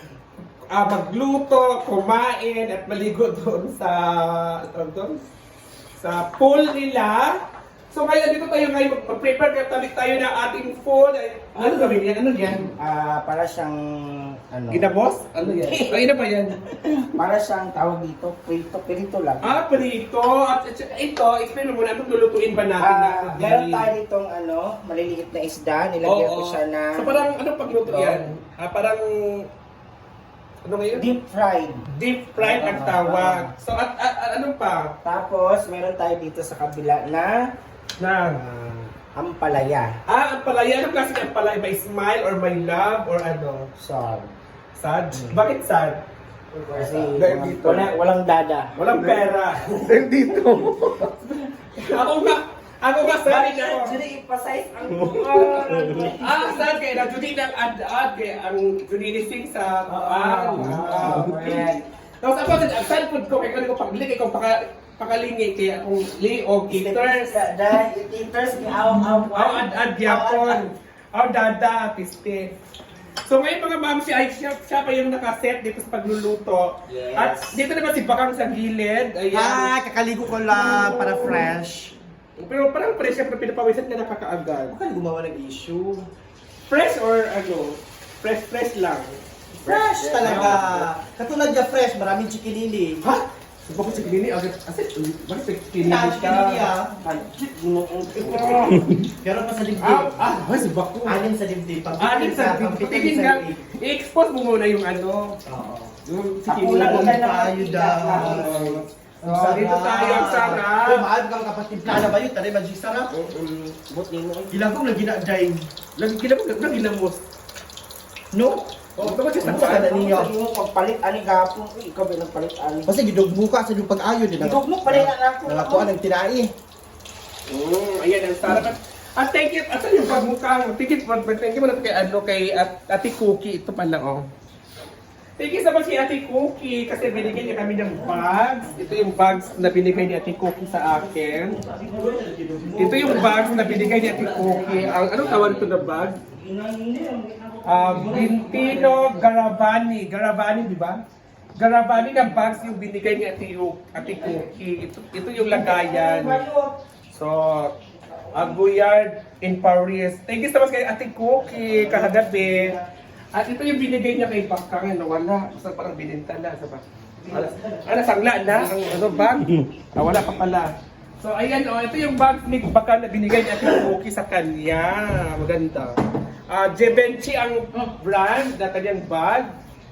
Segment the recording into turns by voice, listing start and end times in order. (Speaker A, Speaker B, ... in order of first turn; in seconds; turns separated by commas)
Speaker A: 0.7-5.2, Speaker A: 6.0-7.4, Speaker A: 7.9-12.7, Speaker B: 11.6-12.0, Speaker B: 12.5-14.9, Speaker A: 14.7-16.6, Speaker B: 15.6-16.0, Speaker B: 16.6-19.6, Speaker A: 19.4-23.9, Speaker B: 22.8-28.3, Speaker A: 26.0-29.5, Speaker A: 30.6-31.2, Speaker B: 30.9-31.9, Speaker A: 31.9-34.9, Speaker B: 32.4-33.5, Speaker B: 35.0-37.4, Speaker A: 38.0-38.4, Speaker B: 38.3-40.0, Speaker A: 40.0-43.7, Speaker B: 43.8-44.3, Speaker A: 44.8-46.0, Speaker B: 45.1-45.4, Speaker B: 46.7-48.7, Speaker C: 46.7-47.1, Speaker A: 46.9-47.9, Speaker A: 48.7-54.0, Speaker B: 53.2-56.7, Speaker A: 54.9-67.3, Speaker B: 59.9-61.8, Speaker B: 66.7-70.6, Speaker A: 69.3-72.5, Speaker A: 73.2-79.7, Speaker B: 76.9-77.6, Speaker C: 79.3-81.9, Speaker A: 80.7-81.1, Speaker A: 82.4-84.7, Speaker C: 84.7-86.1, Speaker A: 86.7-89.2, Speaker C: 89.6-93.0, Speaker B: 89.7-90.7, Speaker A: 90.2-90.7, Speaker A: 93.0-96.7, Speaker C: 95.8-97.0, Speaker B: 97.0-98.8, Speaker A: 98.2-99.0, Speaker C: 99.1-100.2, Speaker A: 99.8-101.2, Speaker C: 101.0-103.6, Speaker A: 102.0-105.4, Speaker C: 105.5-105.9, Speaker A: 106.0-107.2, Speaker B: 106.5-108.8, Speaker C: 106.6-108.6, Speaker A: 108.0-111.0, Speaker C: 109.2-113.2, Speaker B: 113.3-114.5, Speaker C: 114.5-115.6, Speaker A: 116.0-117.2, Speaker B: 118.3-118.7, Speaker A: 119.0-120.0, Speaker C: 119.0-120.3, Speaker B: 119.4-122.9, Speaker C: 122.8-126.5, Speaker B: 124.4-125.9, Speaker A: 127.5-134.3, Speaker A: 135.4-141.6, Speaker C: 141.6-143.6, Speaker B: 141.7-142.1, Speaker A: 142.8-146.2, Speaker B: 142.8-145.7, Speaker B: 146.3-149.4, Speaker A: 147.6-151.0, Speaker A: 151.6-156.4, Speaker B: 154.1-154.4, Speaker B: 155.4-156.8, Speaker A: 157.1-157.7, Speaker A: 158.3-162.8, Speaker C: 161.4-162.8, Speaker A: 163.3-176.0, Speaker C: 167.2-169.3, Speaker A: 176.5-179.5